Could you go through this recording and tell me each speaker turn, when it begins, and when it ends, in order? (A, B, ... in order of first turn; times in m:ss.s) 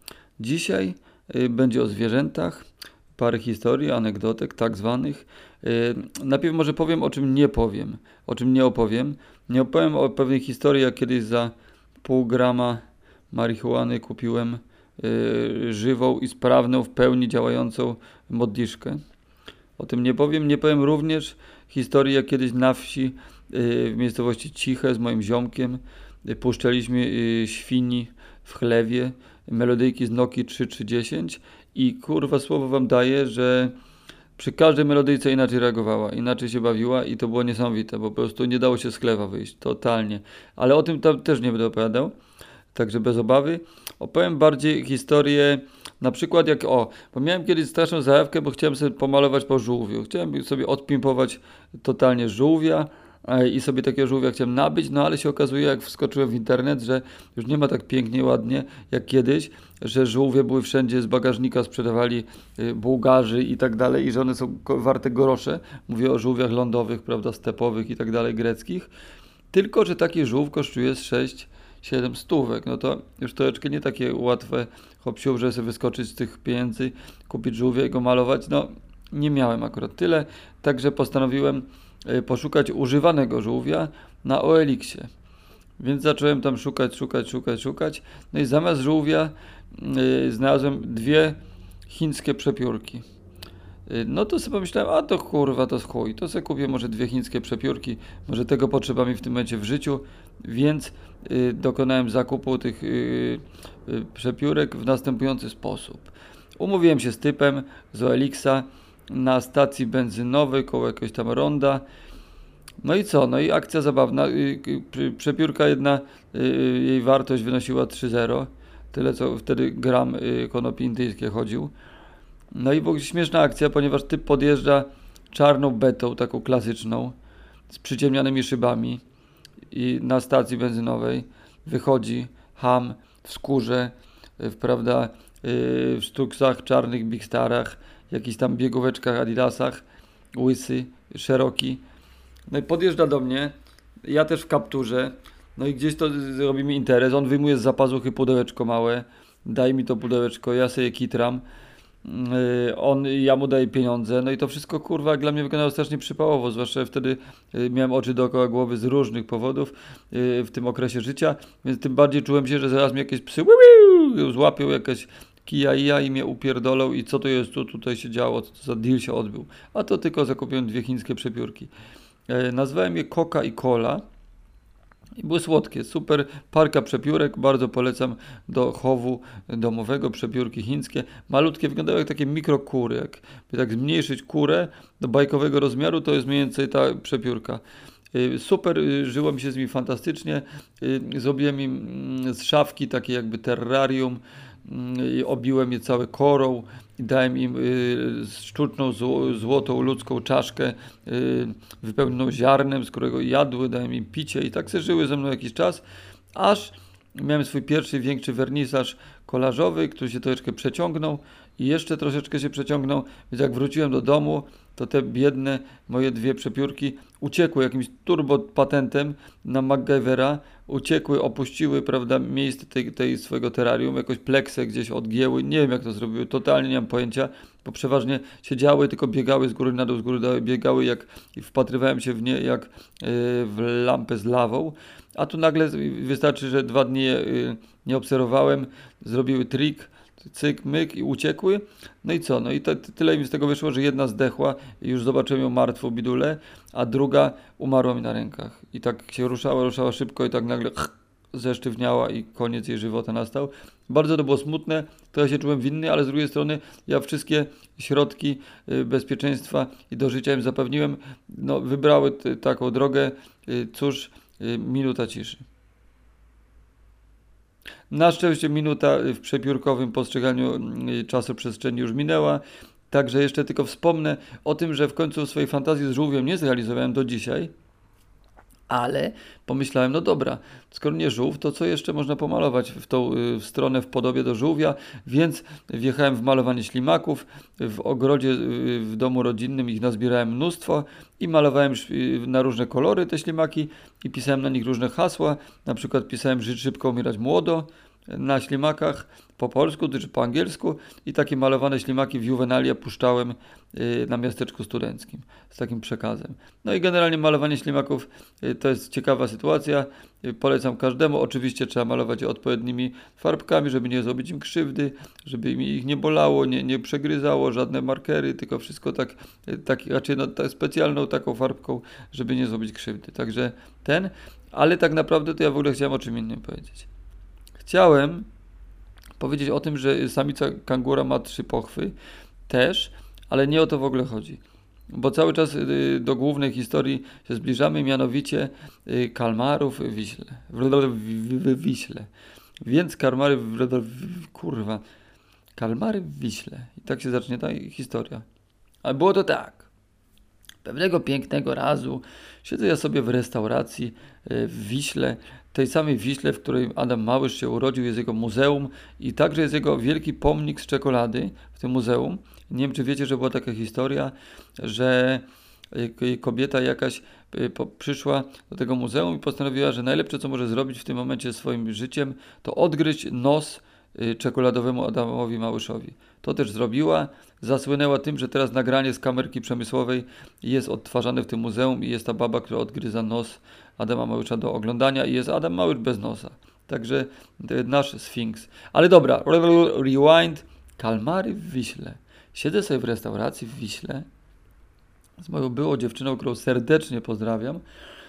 0:00.4-0:19.0 A
0:19.8-0:33.7 A
0:34.4-0:42.1 A
0:42.7-1:08.9 A
1:09.5-1:25.1 A
1:25.8-1:33.0 A
1:33.9-1:51.8 A
1:52.8-2:01.7 A
2:02.5-2:07.1 A
2:07.7-2:09.0 A
2:09.7-2:19.8 A
2:20.3-2:21.8 A
2:22.5-2:31.4 A
2:32.0-2:51.7 A
2:52.3-2:54.0 A
2:55.2-3:07.6 A
3:08.1-4:25.4 A
4:27.9-4:37.5 A
4:38.7-5:26.9 A
5:27.6-5:28.3 A
5:29.2-5:31.9 A
5:32.5-5:42.1 A
5:42.6-5:44.8 A
5:45.6-5:48.2 A
5:48.8-5:49.7 A
5:50.6-6:34.0 A
6:35.2-6:37.6 A